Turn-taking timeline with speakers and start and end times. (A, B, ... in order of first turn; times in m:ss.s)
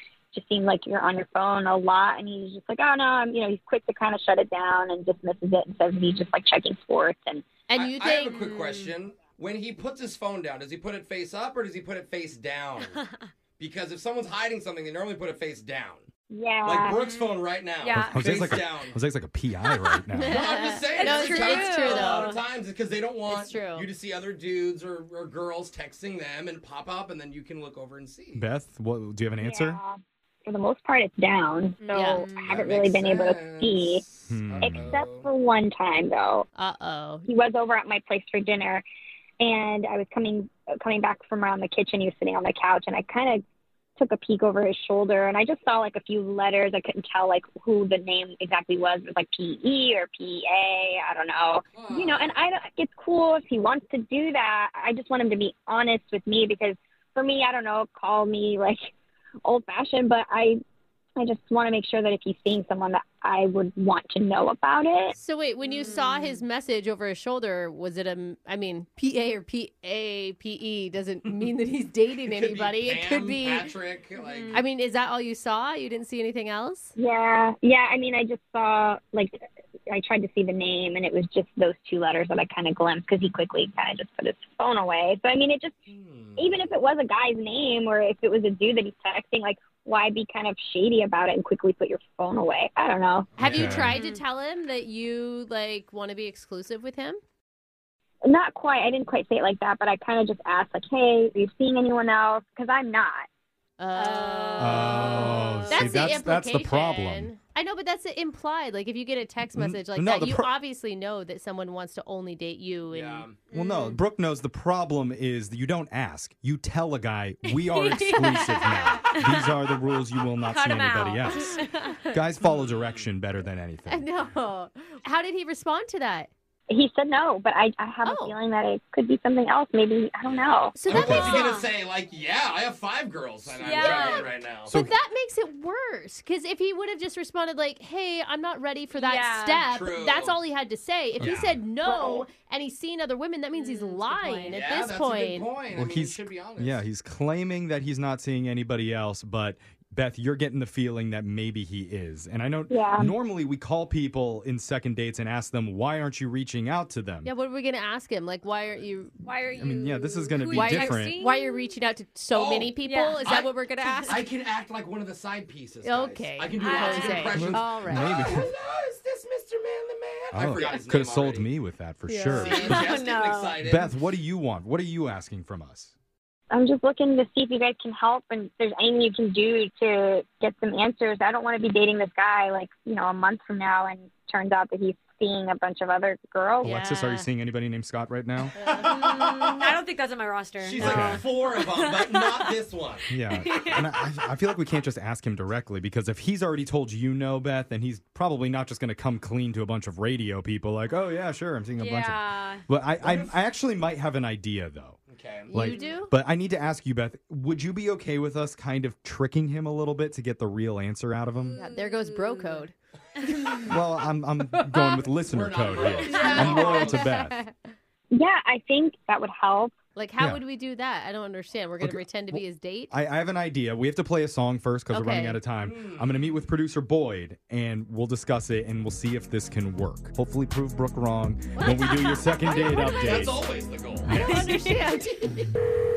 0:00.3-0:07.4 A
0:07.7-0:08.4 B
0:07.7-0:13.0 C
0:08.6-0:08.9 D
0:13.6-0:16.0 C
0:16.3-0:17.0 A
0:16.6-0:19.0 C
0:17.0-0:18.2 D
0:18.1-0:20.5 E
0:20.1-0:22.3 B
0:20.3-0:28.5 C
0:20.9-0:22.4 D
0:23.3-0:23.9 B
0:28.3-0:29.8 E
0:29.4-0:34.0 A
0:31.8-0:32.6 D
0:31.9-0:32.2 B
0:32.5-0:35.3 C
0:34.3-0:35.0 E
0:34.6-0:36.5 A
0:36.6-0:37.2 B
0:37.3-0:38.8 A
0:39.4-0:43.4 A
0:44.0-0:58.9 A
0:51.7-0:52.4 C
0:59.4-1:00.6 A
1:01.2-1:05.2 A
1:05.2-1:13.7 B
1:05.7-1:06.4 D
1:12.3-1:14.6 C
1:14.2-1:14.6 D
1:14.5-1:16.9 B
1:17.0-1:25.8 A
1:25.9-1:26.7 C
1:26.4-1:33.3 A
1:33.4-1:37.2 B
1:33.4-1:34.0 E
1:33.5-1:33.8 C
1:33.9-1:34.2 D
1:38.2-1:43.3 A
1:43.8-1:53.3 B
1:44.0-1:46.1 D
1:44.6-1:47.3 E
1:49.5-1:50.5 E
1:52.9-1:53.4 C
1:53.5-1:54.0 D
1:53.5-2:01.6 E
1:57.4-1:58.4 D
1:58.2-1:59.0 B
1:59.1-1:59.5 D
2:00.4-2:02.0 D
2:02.1-2:04.0 E
2:02.4-2:03.1 C
2:03.9-2:06.3 B
2:06.7-2:10.8 A
2:08.0-2:08.4 B
2:10.3-2:14.7 C
2:10.8-2:11.5 B
2:10.8-2:11.4 E
2:11.3-2:11.7 D
2:13.6-2:14.3 D
2:13.8-2:25.5 B
2:14.7-2:15.0 E
2:18.9-2:19.7 D
2:19.7-2:20.4 C
2:21.2-2:21.6 E
2:21.2-2:21.6 C
2:21.8-2:22.3 A
2:23.5-2:24.6 D
2:24.5-2:26.8 C
2:25.7-2:37.3 E
2:32.7-2:33.1 A
2:37.2-2:39.2 B
2:39.2-2:41.7 D
2:39.6-2:41.2 E
2:40.5-2:44.2 B
2:42.3-2:51.5 C
2:42.8-2:43.3 D
2:45.8-2:48.1 B
2:46.6-2:47.4 D
2:47.3-2:48.5 E
2:50.3-2:52.9 E
2:52.1-2:52.6 B
2:52.3-2:53.9 C
2:52.5-2:53.6 D
2:53.6-2:55.9 E
2:56.5-3:06.8 A
3:06.6-3:07.3 B
3:06.6-3:08.5 E
3:08.6-3:08.9 B
3:08.6-3:09.8 C
3:08.8-3:12.6 D
3:10.6-3:13.1 C
3:10.8-3:11.3 E
3:13.1-3:25.0 E
3:13.4-3:14.0 D
3:21.8-3:22.6 D
3:23.0-3:23.4 C
3:25.1-3:25.6 C
3:25.5-3:26.1 B
3:25.5-3:31.6 E
3:25.7-3:26.0 D
3:31.6-3:32.7 B
3:31.6-3:32.7 D
3:33.3-3:33.8 B
3:33.7-3:37.4 E
3:34.5-3:35.1 B
3:35.3-3:37.1 C
3:35.8-3:37.6 B
3:38.1-3:39.7 A
3:40.0-3:42.9 B
3:41.8-3:53.4 E
3:44.9-3:45.4 B
3:45.6-3:46.4 C
3:51.6-3:53.0 B
3:52.5-3:54.2 C
3:54.0-3:54.6 E
3:54.1-3:55.4 B
3:54.2-3:54.8 D